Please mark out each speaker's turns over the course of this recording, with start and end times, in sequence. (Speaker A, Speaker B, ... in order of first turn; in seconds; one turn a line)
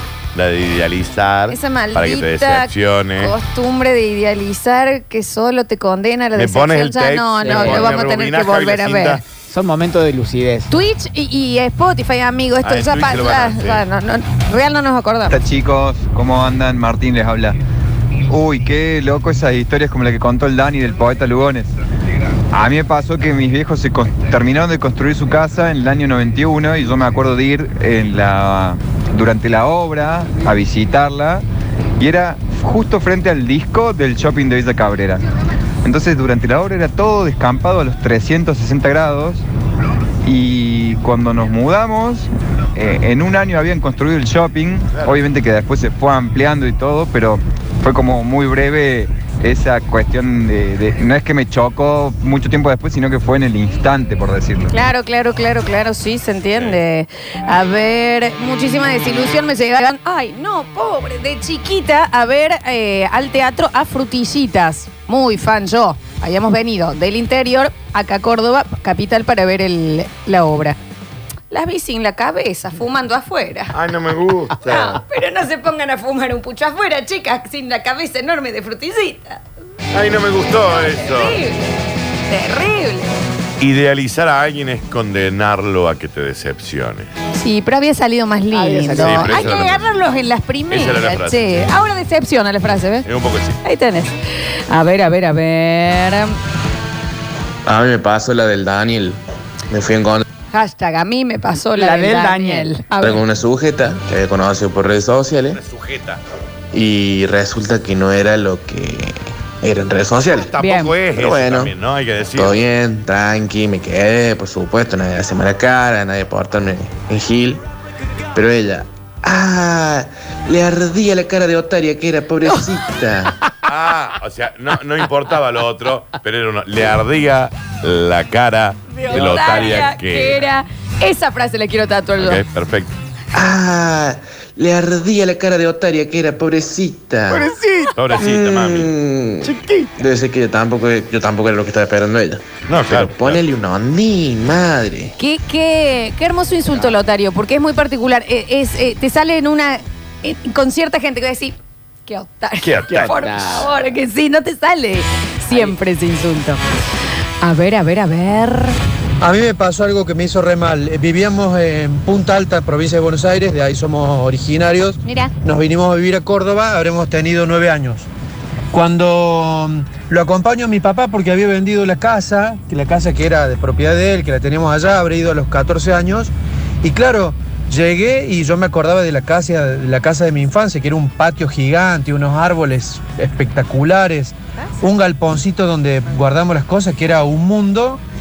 Speaker A: 0.3-3.3
Speaker B: 1.5-9.2
Speaker A: 6.3-9.2
Speaker C: 7.4-7.9
Speaker C: 9.5-10.7
Speaker B: 10.7-15.4
Speaker A: 12.6-13.8
Speaker D: 15.3-17.6
Speaker D: 18.3-21.7
Speaker D: 22.5-31.4
Speaker D: 32.0-35.2
Speaker D: 35.8-39.4
Speaker D: 40.2-54.7
Speaker A: 44.9-45.2
Speaker B: 54.7-70.8
Speaker B: 71.5-73.7
Speaker A: 73.7-75.0
Speaker B: 74.6-79.4
Speaker A: 79.9-81.4
Speaker B: 80.5-81.7
Speaker B: 82.3-83.1
Speaker A: 83.6-87.1
Speaker B: 87.3-93.0
Speaker C: 88.5-89.5
Speaker A: 88.9-89.9
Speaker A: 90.7-91.7
Speaker A: 93.0-93.6
Speaker B: 93.6-94.1
Speaker B: 94.7-96.3
Speaker E: 97.7-99.2
Speaker E: 99.7-100.2
Speaker B: 100.5-103.2
Speaker C: 101.8-102.8
Speaker E: 103.0-105.6
Speaker A: 105.5-106.2
Speaker E: 106.7-110.5
Speaker A: 110.2-112.7
Speaker B: 110.6-110.9
Speaker E: 111.2-111.7
Speaker E: 112.4-117.6
Speaker E: 118.3-123.3
Speaker A: 123.6-130.5
Speaker B: 129.0-132.4
Speaker C: 129.1-129.6
Speaker A: 132.2-132.9
Speaker E: 133.3-137.5
Speaker C: 137.2-138.0
Speaker A: 137.9-138.9
Speaker E: 138.2-145.1
Speaker C: 139.4-140.0
Speaker A: 142.7-143.4
Speaker B: 145.2-156.6
Speaker A: 152.6-153.1
Speaker C: 152.9-153.7
Speaker B: 157.4-158.8
Speaker F: 159.2-168.1
Speaker B: 165.0-165.3
Speaker F: 168.7-176.3
Speaker F: 176.8-188.0